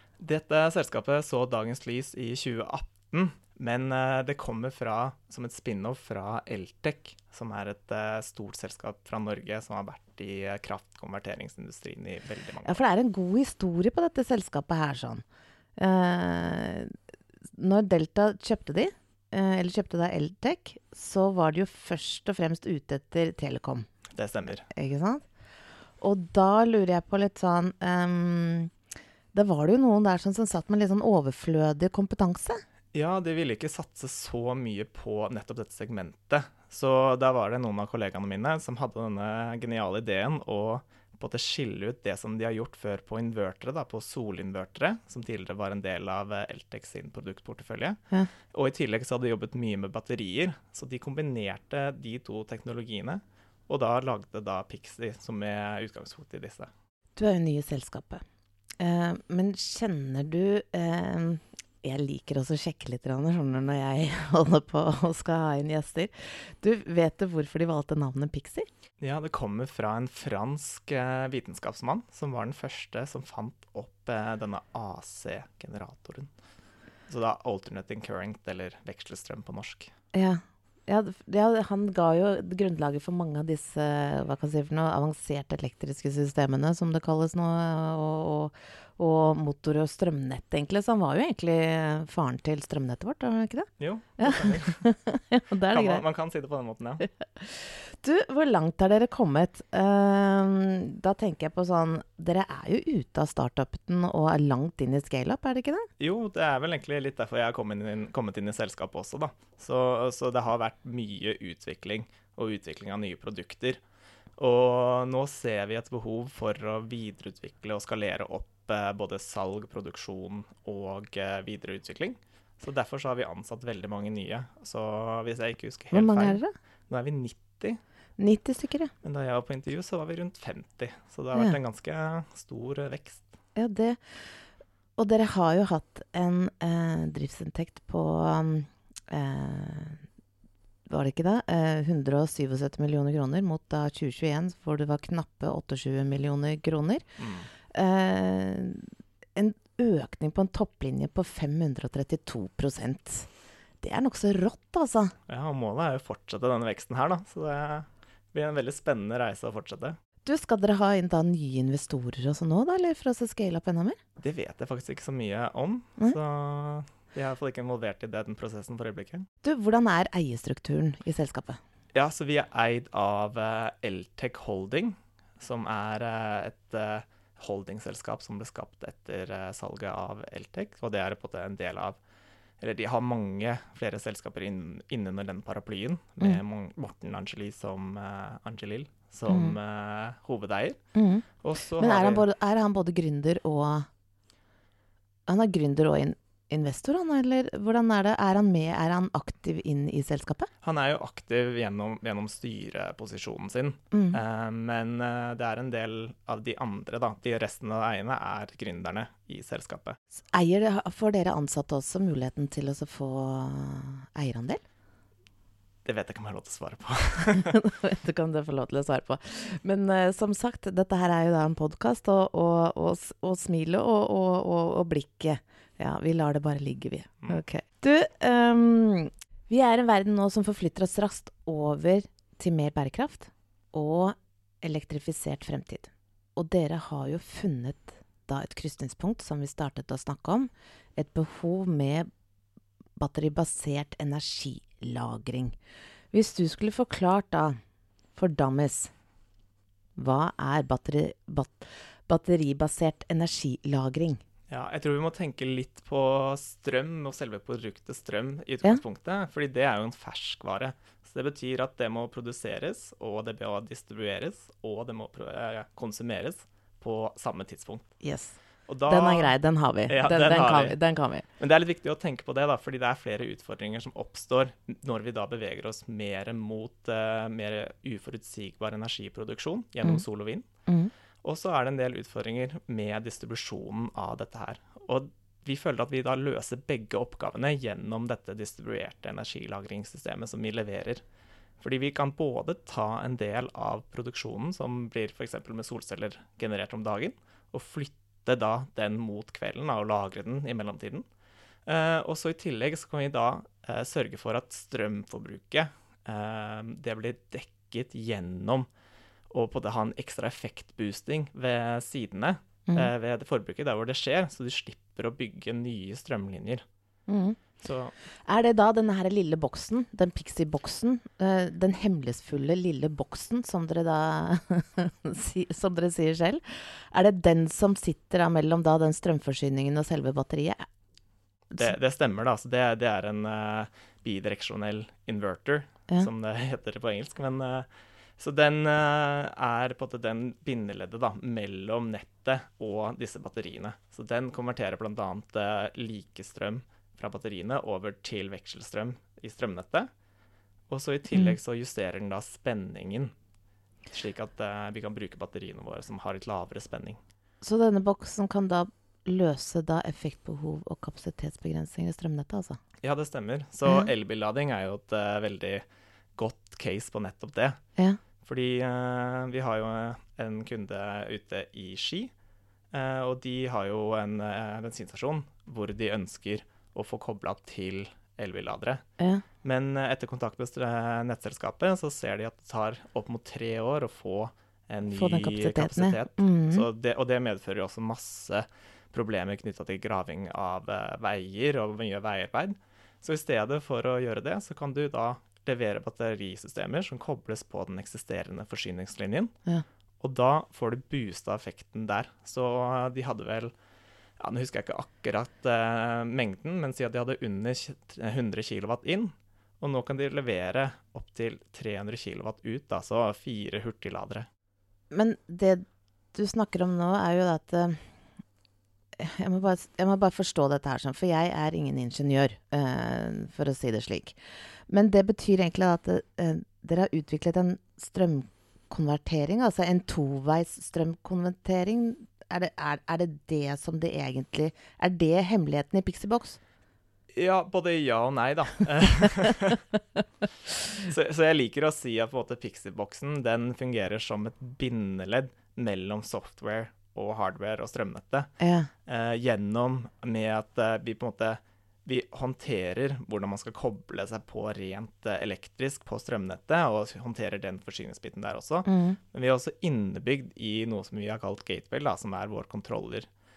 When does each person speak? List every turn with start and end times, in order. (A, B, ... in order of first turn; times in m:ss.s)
0:00.2-0:12.8 A
0:12.6-0:15.2 B
0:15.8-0:17.0 B
0:17.5-0:23.9 B
0:24.2-0:24.6 A
0:24.7-0:25.2 B
0:26.0-0:28.7 B
0:29.3-0:32.6 B
0:32.9-0:56.7 A
0:57.2-0:58.2 B
0:58.8-1:08.7 B
1:09.0-1:16.3 A
1:17.1-1:19.9 A
1:20.1-1:36.0 B
1:33.8-1:34.8 A
1:35.7-1:37.0 A
1:37.4-1:45.9 B
1:46.0-1:53.8 A
1:54.4-2:07.8 A
2:05.9-2:06.5 B
2:08.2-2:08.9 B
2:09.0-2:13.3 A
2:13.6-2:14.4 B
2:15.0-2:20.0 B
2:20.9-2:27.1 B
2:27.2-2:27.5 A
2:27.7-2:35.2 B
2:35.3-2:40.0 A
2:40.2-2:44.0 B
2:44.2-2:49.3 A
2:49.4-2:51.6 B
2:51.9-3:02.0 A
3:02.6-3:10.8 A
3:09.3-3:09.6 B
3:11.0-3:11.3 B
3:11.4-3:12.2 A
3:11.8-3:13.9 B
3:15.3-3:20.5 B
3:20.6-3:30.0 A
3:23.9-3:24.2 B
3:30.3-3:34.6 B
3:35.8-3:37.5 A
3:37.3-4:02.1 B
4:03.0-4:05.6 B
4:06.1-4:07.6 B
4:08.2-4:08.9 B
4:10.0-4:14.2 B
4:14.5-4:27.9 A
4:28.0-4:31.3 B
4:28.7-4:29.4 A
4:29.9-4:30.8 A
4:31.4-4:40.5 A
4:40.7-4:40.9 B
4:41.2-4:51.0 A
4:51.6-5:01.0 A
5:01.7-5:08.7 A
5:09.3-5:16.6 A
5:17.1-5:17.4 B
5:17.6-5:17.9 A
5:18.3-5:30.7 B
5:31.6-5:49.9 A
5:50.7-5:53.1 A
5:51.1-5:51.4 B
5:53.9-5:57.0 A
5:57.4-6:02.6 B
6:02.8-6:05.6 A
6:06.2-6:07.6 A
6:08.2-6:12.1 A
6:12.7-6:18.8 A
6:19.0-6:19.2 B
6:19.4-6:39.3 A
6:24.9-6:26.7 B
6:40.0-6:43.5 A
6:44.2-6:54.3 A
6:54.9-6:57.8 B
6:59.0-7:04.2 B
7:04.7-7:16.4 B
7:17.1-7:19.6 A
7:20.7-7:28.3 A
7:28.4-7:28.7 B
7:28.9-7:43.1 A
7:38.7-7:39.0 B